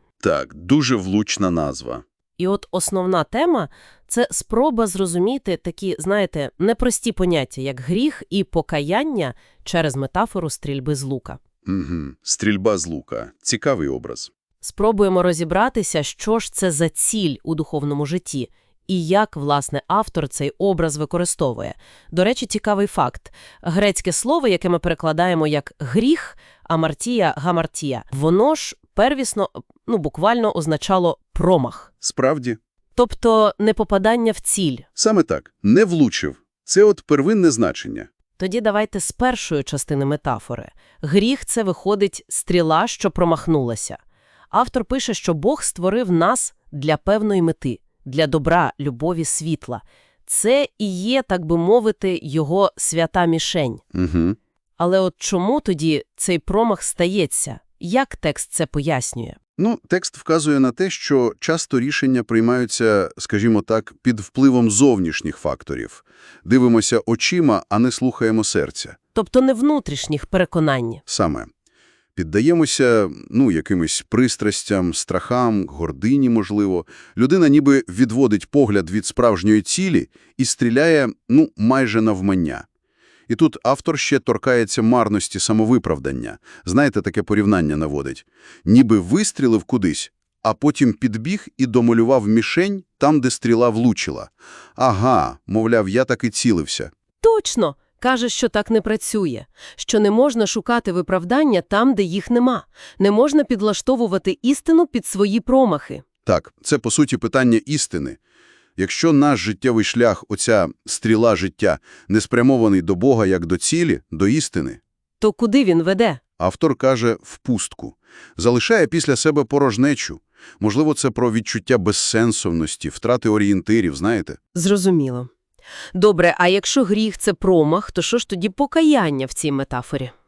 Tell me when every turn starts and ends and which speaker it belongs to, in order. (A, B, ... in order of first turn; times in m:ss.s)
0:00.2-0:02.0 A
0:02.4-0:11.4 B
0:11.6-0:14.3 A
0:14.6-0:31.9 B
0:32.0-0:32.6 A
0:33.0-0:34.8 B
0:35.0-0:38.1 A
0:38.4-0:44.0 B
0:44.5-0:53.8 B
0:53.9-0:54.4 A
0:54.8-0:59.4 B
0:59.6-1:09.0 A
1:09.1-1:11.0 B
1:11.1-1:11.5 A
1:12.1-1:22.6 A
1:23.3-1:36.9 A
1:37.2-1:46.0 B
1:46.2-1:48.2 A
1:48.8-1:54.8 A
1:55.2-1:56.2 B
1:56.4-2:04.4 A
2:04.5-2:05.3 B
2:05.9-2:10.1 B